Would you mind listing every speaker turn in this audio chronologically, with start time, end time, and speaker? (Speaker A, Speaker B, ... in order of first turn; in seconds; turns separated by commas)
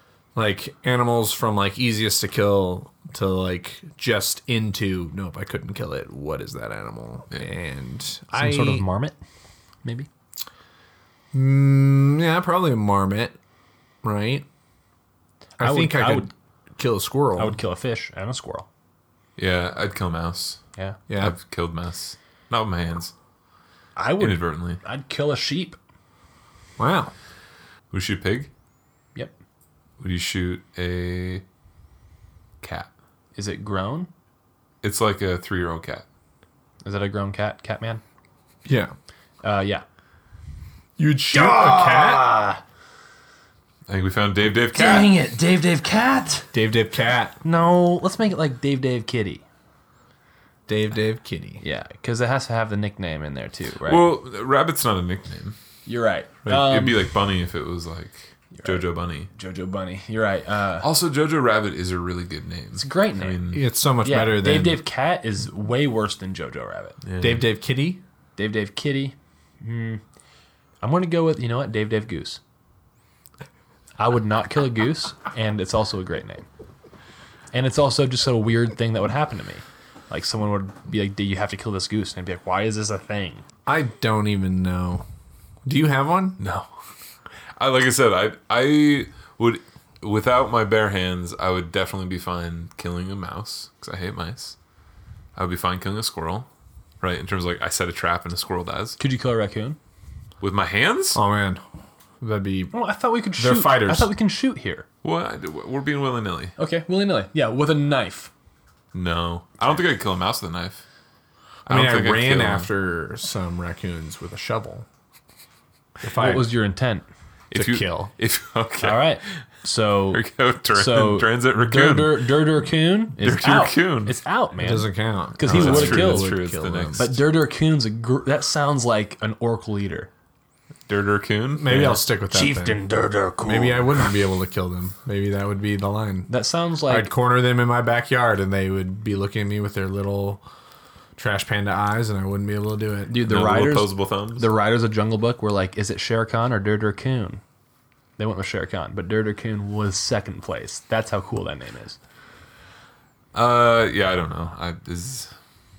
Speaker A: 0.3-8.8, Speaker B: 8.3-9.2, Speaker B: 9.8-10.1, Speaker A: 11.3-13.3, Speaker A: 14.0-14.4, Speaker A: 15.6-17.6, Speaker B: 15.6-16.3, Speaker B: 17.4-18.7, Speaker C: 19.4-20.6, Speaker A: 21.1-21.3, Speaker C: 21.2-23.1, Speaker B: 23.9-25.8, Speaker C: 24.2-24.8, Speaker A: 26.8-27.1, Speaker C: 27.9-28.5, Speaker C: 30.0-31.4, Speaker C: 32.6-32.9, Speaker B: 33.3-34.1, Speaker C: 34.8-36.0, Speaker B: 36.8-38.0, Speaker A: 38.6-38.9, Speaker B: 39.4-39.8, Speaker A: 41.0-42.3, Speaker B: 41.3-42.6, Speaker C: 43.9-45.1, Speaker B: 44.7-46.5, Speaker A: 46.5-47.4, Speaker B: 47.4-49.4, Speaker A: 50.7-51.6, Speaker B: 51.6-54.1, Speaker C: 53.8-55.5, Speaker B: 55.9-57.0, Speaker C: 56.5-59.3, Speaker B: 58.5-60.9, Speaker C: 60.8-63.6, Speaker B: 62.8-67.0, Speaker A: 63.5-64.8, Speaker C: 67.0-67.5, Speaker A: 67.2-68.0, Speaker B: 68.3-70.0, Speaker B: 70.8-72.4, Speaker B: 74.0-76.5, Speaker B: 77.5-83.4, Speaker A: 83.7-85.0, Speaker A: 85.6-86.4, Speaker C: 86.4-86.7, Speaker C: 87.6-94.5, Speaker C: 95.3-96.5, Speaker C: 97.0-99.0, Speaker B: 99.0-99.8, Speaker C: 100.4-101.2, Speaker A: 101.1-101.6, Speaker A: 102.2-102.7, Speaker B: 102.7-104.8, Speaker A: 103.4-104.1, Speaker C: 105.0-106.5, Speaker B: 106.6-108.3, Speaker C: 108.9-110.8, Speaker A: 111.6-114.8, Speaker C: 111.7-112.7, Speaker A: 116.0-116.5, Speaker B: 116.1-117.0, Speaker C: 117.5-119.2, Speaker A: 117.5-118.1, Speaker B: 118.8-120.2, Speaker C: 120.1-122.3, Speaker B: 120.7-126.3, Speaker C: 123.2-124.2, Speaker A: 124.6-127.1, Speaker C: 125.4-127.1, Speaker B: 127.0-130.1, Speaker C: 130.9-132.0, Speaker A: 131.6-132.8, Speaker B: 132.3-134.1, Speaker A: 133.4-136.3, Speaker B: 136.3-137.1, Speaker A: 136.9-140.4, Speaker A: 141.2-143.2, Speaker B: 143.1-147.4, Speaker C: 143.2-144.5, Speaker B: 148.2-152.0, Speaker C: 153.3-155.3